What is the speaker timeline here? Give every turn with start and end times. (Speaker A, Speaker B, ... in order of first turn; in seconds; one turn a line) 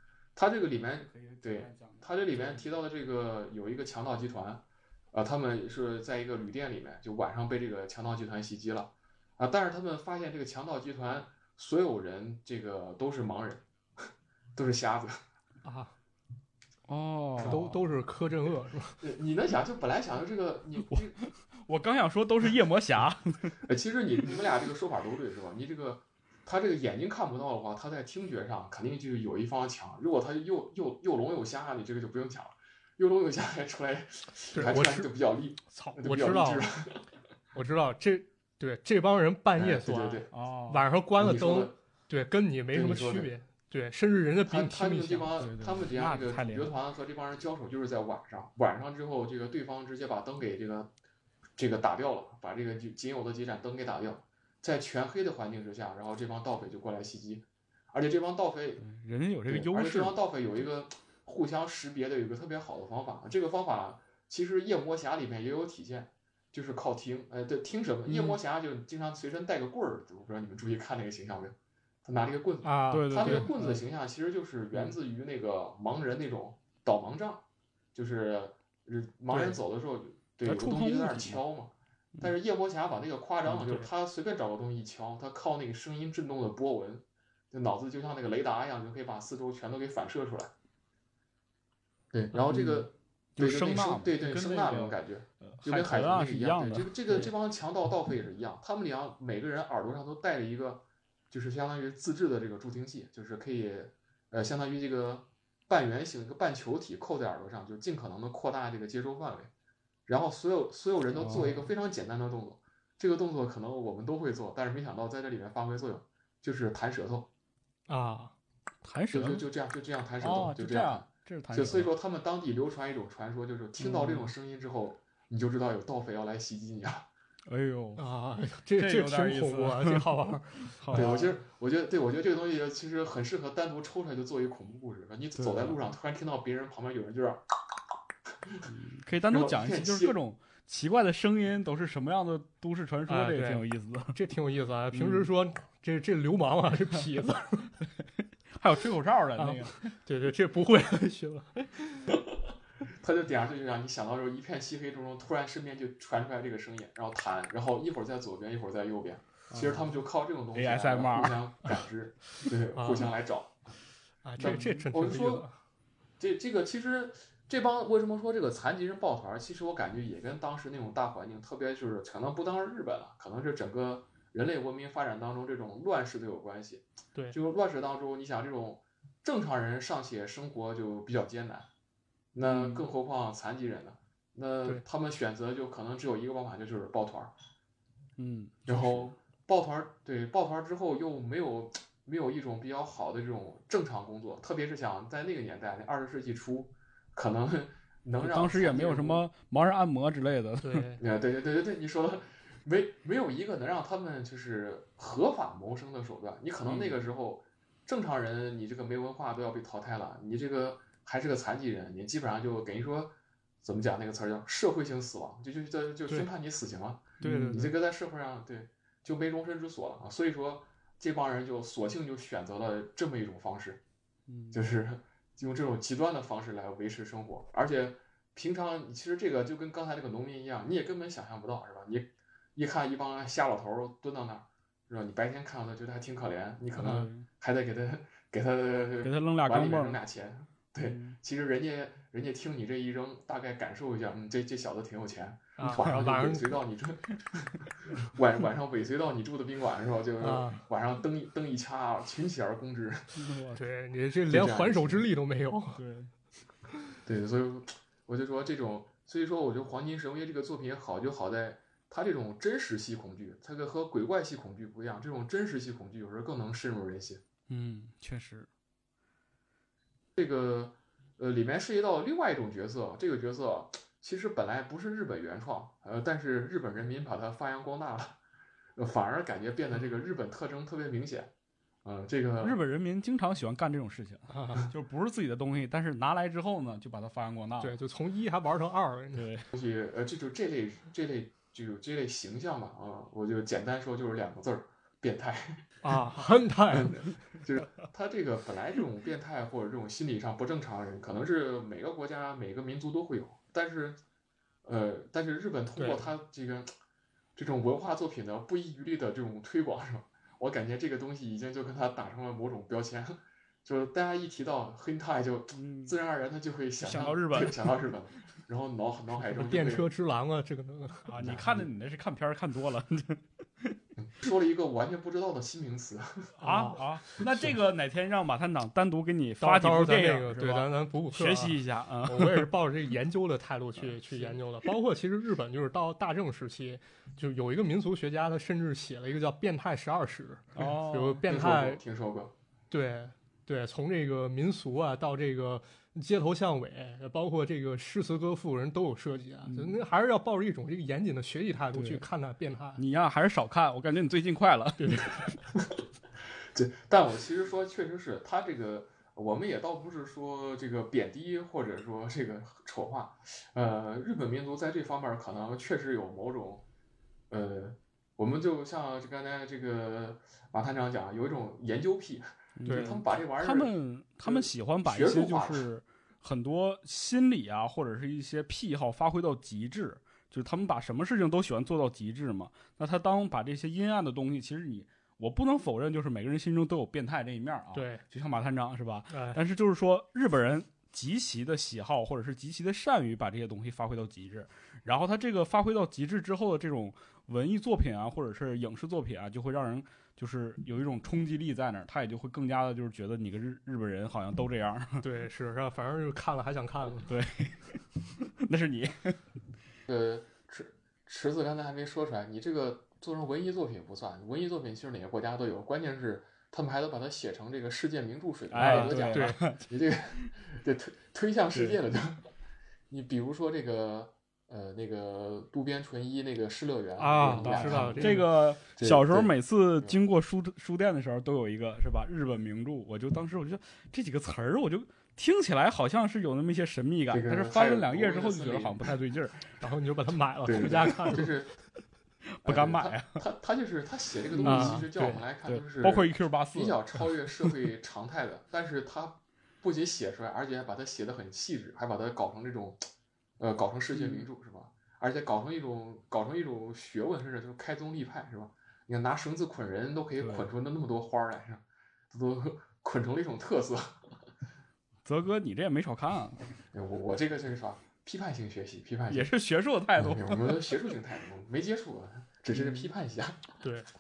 Speaker A: 0.3-13.6
Speaker B: 0.9-2.7
Speaker A: 14.6-15.2
Speaker C: 15.6-15.9
Speaker B: 16.9-17.8
Speaker A: 17.4-17.6
Speaker C: 17.4-19.0
Speaker A: 19.0-21.2
Speaker B: 20.9-23.6
Speaker A: 23.6-37.0
Speaker C: 34.5-35.1
Speaker C: 35.7-36.7
Speaker C: 37.5-45.3
Speaker A: 39.6-40.3
Speaker B: 40.3-40.9
Speaker A: 41.2-41.8
Speaker A: 42.7-43.3
Speaker A: 44.5-50.9
Speaker B: 45.4-46.7
Speaker A: 51.6-58.8
Speaker B: 58.8-60.2
Speaker A: 59.5-77.4
Speaker B: 68.1-68.4
Speaker C: 72.6-73.8
Speaker B: 72.9-73.6
Speaker A: 77.9-90.5
Speaker C: 79.3-79.6
Speaker B: 80.4-81.4
Speaker C: 83.6-83.9
Speaker A: 92.1-109.5
Speaker B: 92.3-97.3
Speaker A: 110.1-117.3
Speaker B: 111.1-111.7
Speaker C: 117.9-118.3
Speaker B: 118.8-119.4
Speaker A: 119.1-127.1
Speaker B: 120.2-121.9
Speaker B: 123.8-124.3
Speaker B: 127.5-128.0
Speaker C: 128.0-131.3
Speaker B: 128.8-131.2
Speaker A: 130.9-137.8
Speaker B: 135.4-135.8
Speaker B: 138.7-144.2
Speaker A: 139.3-140.2
Speaker C: 143.1-147.7
Speaker B: 144.9-145.3
Speaker B: 148.5-149.9
Speaker C: 149.4-152.2
Speaker A: 153.0-163.7
Speaker B: 159.5-159.9
Speaker B: 160.5-161.4
Speaker C: 162.8-163.1
Speaker C: 164.2-165.6
Speaker A: 164.4-165.5
Speaker B: 164.4-164.8
Speaker A: 166.2-181.7
Speaker A: 182.3-187.3
Speaker B: 182.4-182.9
Speaker B: 188.2-189.1
Speaker A: 188.7-199.3
Speaker B: 198.2-200.8
Speaker C: 200.6-201.0
Speaker A: 201.0-223.8
Speaker B: 206.6-206.9
Speaker B: 217.2-217.7
Speaker C: 217.2-217.7
Speaker B: 224.3-224.6
Speaker A: 224.5-247.5
Speaker B: 236.8-237.3
Speaker B: 239.0-240.0
Speaker B: 240.8-241.2
Speaker C: 245.6-246.5
Speaker B: 245.7-245.9
Speaker A: 248.0-253.1
Speaker C: 250.2-250.6
Speaker B: 253.1-253.6
Speaker C: 253.6-255.8
Speaker A: 254.3-255.1
Speaker B: 255.8-256.1
Speaker A: 257.1-267.2
Speaker B: 267.5-268.5
Speaker A: 270.1-278.2
Speaker A: 278.8-281.3
Speaker A: 281.8-282.6
Speaker B: 282.4-287.8
Speaker C: 284.3-284.6
Speaker C: 287.6-289.3
Speaker B: 289.1-289.5
Speaker A: 289.5-295.7
Speaker C: 295.8-297.0
Speaker A: 296.7-304.0
Speaker A: 304.6-306.7
Speaker C: 305.8-306.1
Speaker A: 307.4-319.9
Speaker B: 315.5-315.9
Speaker B: 316.8-317.7
Speaker C: 319.3-321.1
Speaker B: 321.1-323.8
Speaker A: 321.2-321.7
Speaker A: 324.0-326.3
Speaker C: 326.4-326.8
Speaker B: 326.4-332.5
Speaker C: 329.4-341.8
Speaker B: 340.6-341.2
Speaker A: 341.3-342.3
Speaker C: 342.7-352.8
Speaker B: 349.4-349.8
Speaker B: 351.7-352.1
Speaker B: 352.8-355.3
Speaker C: 354.8-355.3
Speaker A: 356.5-366.6
Speaker A: 367.3-375.7
Speaker B: 372.6-405.1
Speaker C: 372.6-373.0
Speaker C: 387.7-388.0
Speaker C: 389.1-389.4
Speaker C: 405.0-407.1
Speaker B: 407.1-409.2
Speaker A: 409.9-422.2
Speaker B: 418.5-419.7
Speaker C: 418.6-419.4
Speaker B: 421.5-421.8
Speaker A: 422.9-430.0
Speaker C: 427.0-428.3
Speaker B: 427.2-439.5
Speaker A: 437.1-438.9
Speaker C: 439.6-441.3
Speaker A: 440.4-441.5
Speaker B: 442.4-443.2
Speaker A: 442.4-452.8
Speaker B: 444.3-447.6
Speaker C: 444.4-445.2
Speaker A: 453.4-463.9
Speaker B: 453.9-454.3
Speaker B: 460.2-460.5
Speaker B: 465.1-466.4
Speaker A: 466.7-469.3
Speaker B: 469.1-470.9
Speaker A: 470.0-473.5
Speaker C: 473.6-473.9